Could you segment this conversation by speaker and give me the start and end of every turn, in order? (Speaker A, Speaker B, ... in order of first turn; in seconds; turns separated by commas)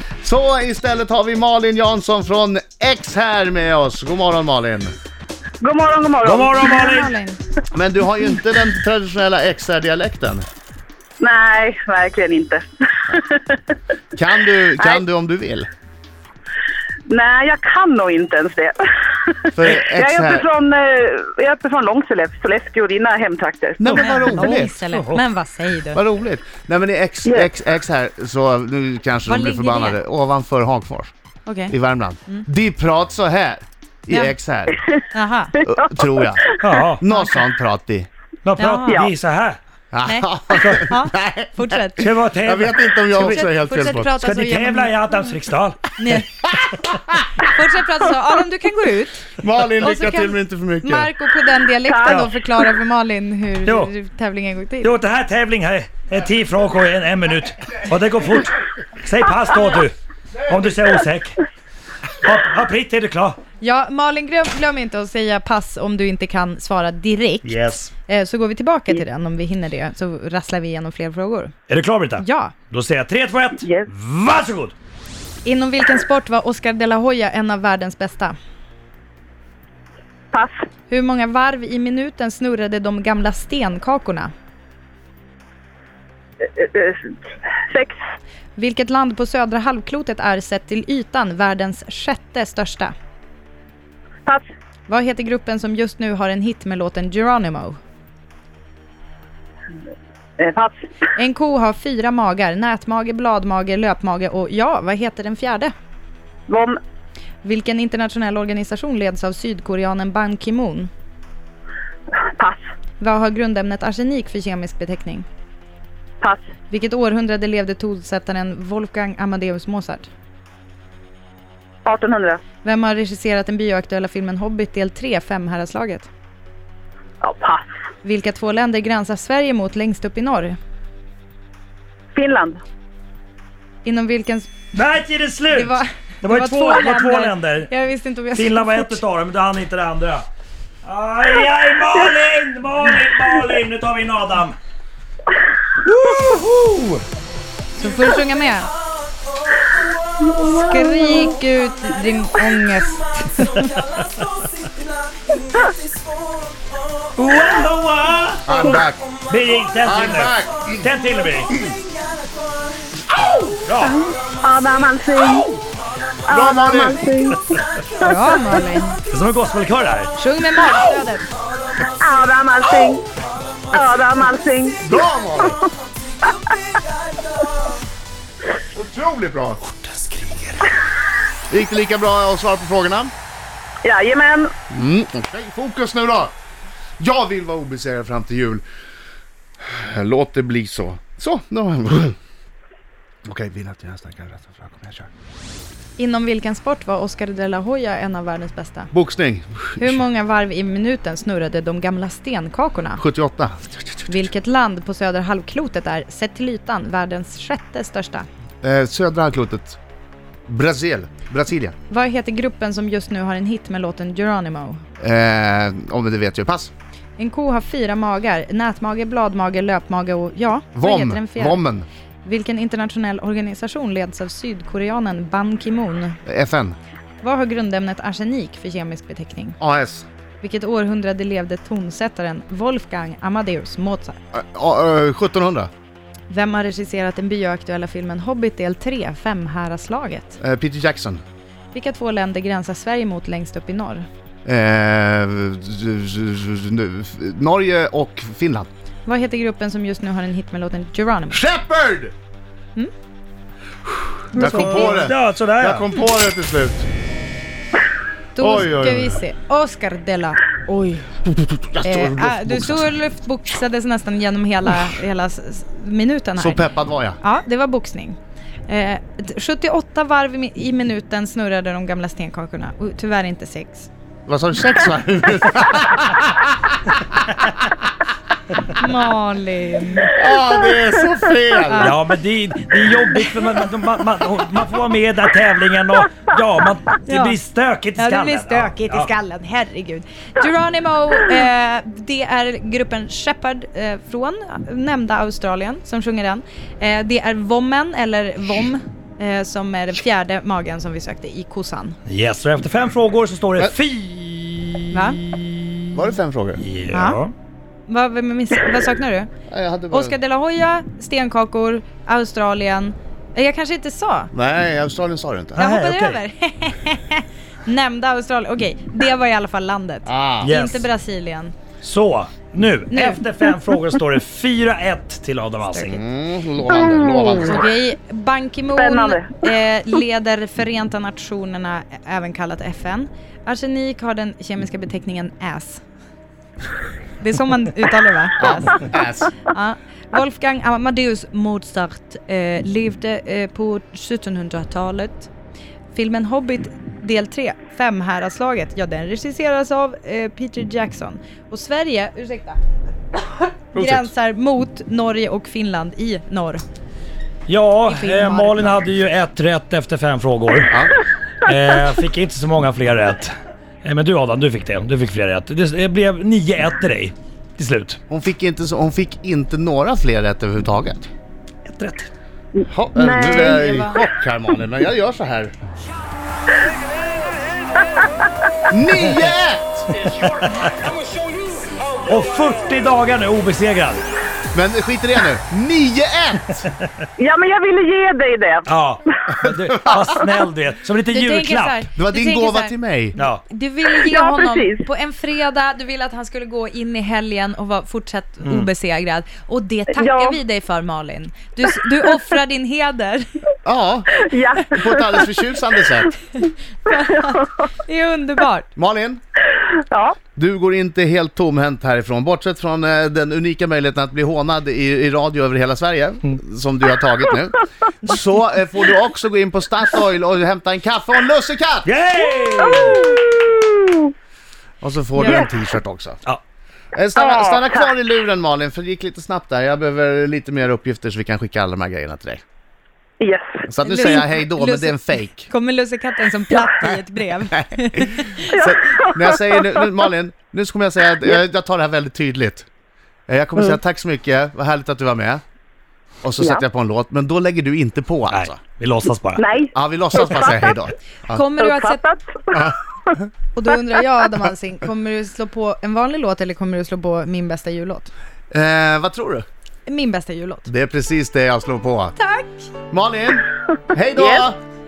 Speaker A: 0.2-4.9, Speaker B: 5.6-6.7, Speaker C: 6.2-7.1, Speaker D: 6.6-7.4, Speaker A: 7.7-10.4, Speaker B: 11.2-13.6, Speaker A: 14.1-15.7, Speaker B: 17.1-24.0, Speaker A: 19.5-20.4, Speaker A: 23.8-24.8, Speaker D: 23.9-26.0, Speaker C: 24.0-25.2, Speaker A: 25.9-31.1, Speaker D: 29.2-30.0, Speaker D: 31.4-31.7, Speaker A: 31.7-34.8, Speaker D: 34.1-34.3, Speaker D: 35.1-35.5, Speaker A: 35.6-38.1, Speaker C: 36.6-37.0, Speaker D: 37.1-37.4, Speaker C: 38.4-39.6, Speaker D: 38.6-39.0, Speaker A: 39.9-41.6, Speaker D: 40.0-42.1, Speaker C: 40.6-40.9, Speaker C: 42.0-43.4, Speaker A: 42.4-44.2, Speaker D: 43.1-45.0, Speaker C: 44.2-45.9, Speaker D: 46.0-46.3, Speaker A: 46.4-47.2, Speaker D: 47.4-55.0, Speaker A: 49.4-51.1, Speaker B: 51.9-52.3, Speaker C: 52.0-52.3, Speaker C: 53.6-53.9, Speaker C: 54.8-61.4, Speaker C: 62.2-63.4, Speaker D: 63.6-71.5, Speaker C: 67.4-67.9, Speaker C: 71.7-74.7, Speaker D: 72.2-72.5, Speaker B: 73.6-73.9, Speaker D: 75.4-78.3, Speaker D: 80.9-84.3, Speaker B: 86.5-87.1, Speaker B: 87.7-88.0, Speaker D: 88.5-92.9, Speaker D: 94.9-97.8, Speaker B: 100.4-100.8, Speaker D: 101.1-105.7, Speaker B: 106.5-106.8, Speaker D: 107.4-110.9, Speaker B: 112.2-112.6, Speaker D: 113.0-115.2, Speaker D: 116.7-120.1, Speaker B: 121.8-122.4, Speaker D: 122.6-126.1, Speaker B: 127.2-127.7, Speaker D: 128.0-130.6, Speaker B: 132.1-132.6, Speaker D: 133.8-134.5, Speaker C: 134.7-137.7, Speaker D: 135.5-139.0, Speaker C: 138.3-140.2, Speaker C: 140.8-144.6, Speaker C: 145.8-147.0, Speaker D: 147.8-148.7, Speaker B: 150.3-151.2, Speaker D: 150.3-153.8, Speaker C: 157.2-161.6, Speaker A: 158.4-159.0, Speaker B: 158.6-158.8, Speaker A: 159.8-160.9, Speaker C: 163.4-164.0, Speaker B: 163.8-165.5, Speaker B: 166.2-168.6, Speaker A: 166.3-167.1, Speaker D: 168.0-169.0, Speaker C: 169.1-170.1, Speaker D: 170.1-171.2, Speaker B: 171.8-173.0, Speaker B: 173.7-174.8, Speaker A: 174.8-175.6, Speaker A: 178.7-179.6, Speaker C: 179.7-180.7, Speaker A: 181.5-183.1, Speaker B: 183.8-184.5, Speaker A: 184.7-186.3, Speaker A: 187.0-188.6, Speaker A: 189.6-192.2, Speaker A: 193.3-195.1, Speaker D: 196.0-198.9, Speaker A: 198.9-200.0, Speaker D: 199.8-203.0, Speaker A: 203.0-204.3, Speaker D: 204.1-208.3, Speaker A: 208.6-209.8, Speaker A: 210.5-211.7, Speaker D: 211.9-214.8, Speaker A: 215.0-216.7, Speaker D: 217.2-221.6, Speaker A: 220.7-221.9, Speaker D: 222.2-226.2, Speaker A: 226.2-226.8, Speaker D: 227.2-229.6, Speaker A: 229.6-230.1, Speaker D: 230.4-234.2, Speaker A: 234.3-235.7, Speaker D: 236.3-240.4, Speaker A: 240.4-241.2, Speaker D: 241.7-244.0, Speaker A: 244.4-248.7, Speaker D: 249.1-251.4, Speaker A: 251.3-252.1, Speaker A: 254.3-256.9, Speaker D: 254.3-255.1, Speaker C: 254.3-255.9, Speaker D: 258.4-261.1, Speaker A: 258.4-259.2, Speaker A: 261.2-262.9, Speaker D: 261.8-266.6, Speaker A: 266.4-267.2, Speaker D: 267.2-273.9, Speaker A: 274.3-277.3, Speaker D: 278.7-280.1, Speaker A: 280.1-281.9, Speaker D: 281.7-281.9, Speaker C: 281.8-289.1, Speaker D: 287.1-287.4, Speaker D: 288.0-302.0, Speaker C: 302.1-306.0, Speaker D: 304.9-305.2, Speaker A: 305.9-306.6, Speaker C: 306.6-307.3, Speaker D: 306.9-307.2, Speaker D: 307.9-309.3, Speaker A: 309.5-310.2, Speaker D: 309.9-314.3, Speaker A: 314.3-315.6, Speaker C: 315.6-316.2, Speaker D: 315.6-321.5, Speaker A: 320.1-320.5, Speaker C: 320.4-320.9, Speaker C: 321.8-326.0, Speaker D: 322.9-323.2, Speaker A: 325.9-327.6, Speaker D: 327.4-335.8, Speaker B: 328.7-329.4, Speaker D: 337.2-345.3, Speaker A: 338.4-339.3, Speaker D: 345.9-352.6, Speaker A: 353.7-354.1, Speaker D: 353.7-356.6, Speaker C: 357.5-360.8, Speaker D: 357.9-358.7, Speaker A: 360.7-360.9, Speaker C: 361.4-363.3, Speaker C: 363.8-368.0, Speaker A: 368.1-371.1, Speaker C: 371.6-372.1, Speaker B: 372.6-373.9, Speaker A: 372.7-375.5, Speaker D: 373.6-373.9, Speaker A: 378.7-379.9, Speaker C: 380.0-380.9, Speaker C: 382.1-384.0, Speaker A: 384.5-386.7, Speaker B: 387.2-388.7, Speaker C: 388.6-391.9, Speaker A: 389.4-390.2, Speaker D: 391.1-403.2, Speaker A: 391.9-393.1, Speaker C: 393.2-393.4, Speaker B: 393.9-394.9, Speaker C: 398.4-398.7, Speaker B: 399.9-400.4, Speaker A: 403.6-406.1, Speaker B: 404.2-405.3, Speaker D: 406.4-408.7, Speaker A: 408.8-409.2, Speaker B: 409.7-410.2, Speaker A: 410.4-421.9, Speaker C: 421.8-423.1, Speaker B: 422.6-424.1, Speaker A: 424.8-426.2, Speaker D: 425.2-425.4, Speaker B: 425.2-425.5, Speaker A: 426.9-432.4, Speaker B: 427.1-427.9, Speaker B: 433.2-433.6, Speaker A: 433.6-435.5, Speaker D: 433.8-438.5, Speaker A: 437.5-442.6, Speaker B: 438.5-439.7, Speaker A: 443.3-445.4, Speaker A: 446.2-448.6, Speaker C: 448.3-449.4, Speaker B: 449.4-450.7, Speaker A: 449.7-451.4, Speaker D: 451.3-452.0, Speaker B: 451.6-453.1, Speaker A: 452.5-453.3, Speaker D: 453.5-458.1, Speaker A: 458.5-459.4, Speaker D: 459.9-460.7, Speaker A: 460.7-462.1, Speaker D: 462.1-462.7, Speaker A: 462.9-464.6, Speaker B: 464.1-464.5